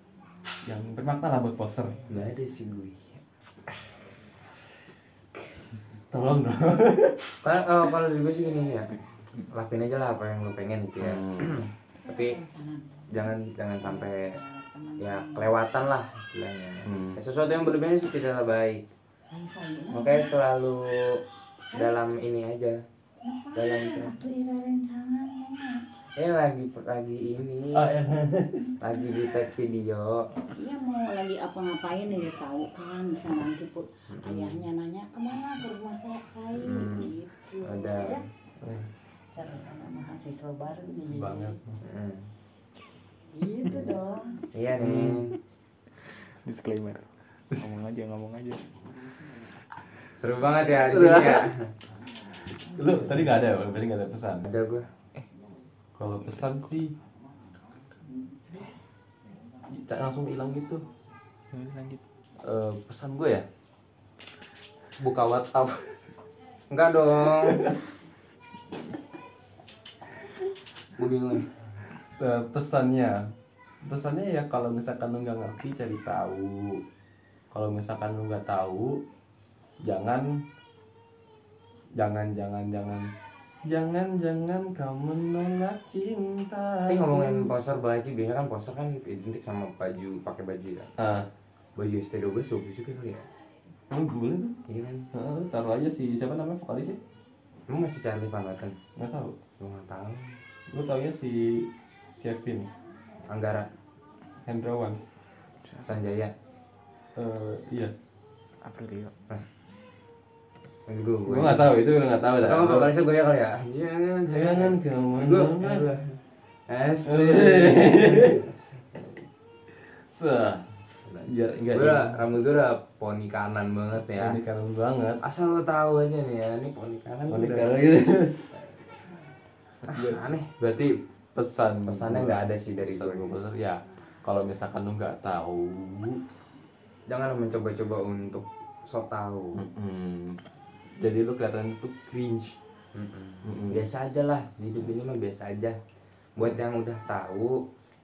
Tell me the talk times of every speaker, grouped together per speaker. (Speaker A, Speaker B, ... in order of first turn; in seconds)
Speaker A: 0.7-2.0, 6.1-7.4, 11.0-11.6, 16.9-17.2, 27.7-28.7, 38.6-38.9, 41.1-41.8, 44.8-45.2, 50.5-51.5, 52.5-54.4, 56.0-56.9, 59.7-60.8, 62.4-63.5, 65.0-65.9, 67.3-67.8, 72.2-73.3, 73.8-76.8, 77.5-79.0, 79.8-80.4, 82.0-83.1, 83.7-87.5, 91.0-91.3, 93.9-94.6, 95.1-97.0, 99.0-99.4, 100.7-101.7, 102.2-102.7, 104.5-105.0, 107.2-107.9, 111.3-112.9, 114.3-115.8, 117.0-118.4, 120.1-120.7, 121.2-122.2, 124.1-125.2, 127.3-128.5, 129.9-130.2, 131.3-136.2, 139.6-140.4, 141.0-142.6, 143.4-143.8
Speaker B: 2.1-3.7, 7.4-9.0, 9.5-12.4, 13.1-14.4, 15.0-18.8, 19.9-21.2, 21.7-22.8, 23.6-24.2, 26.2-28.0, 28.8-30.3, 34.1-34.7, 36.6-38.2, 41.8-42.3, 44.5-45.4, 50.2-51.7, 54.4-54.9, 66.7-67.8, 71.0-71.5, 86.9-90.9, 91.8-93.3, 94.7-95.1, 97.7-98.8, 99.6-100.4, 103.3-103.7, 105.8-106.3, 110.9-119.2, 121.0-124.4, 125.2-127.8, 129.9-130.9, 131.8-133.4, 137.1-139.6, 142.9-145.8, 146.4-147.6
Speaker C: 12.0-15.5, 19.3-20.3, 21.7-22.0, 23.2-25.8, 30.5-38.3, 39.3-41.6, 43.3-44.4
Speaker D: 46.0-48.8, 61.5-62.0, 105.6-105.9, 108.6-109.1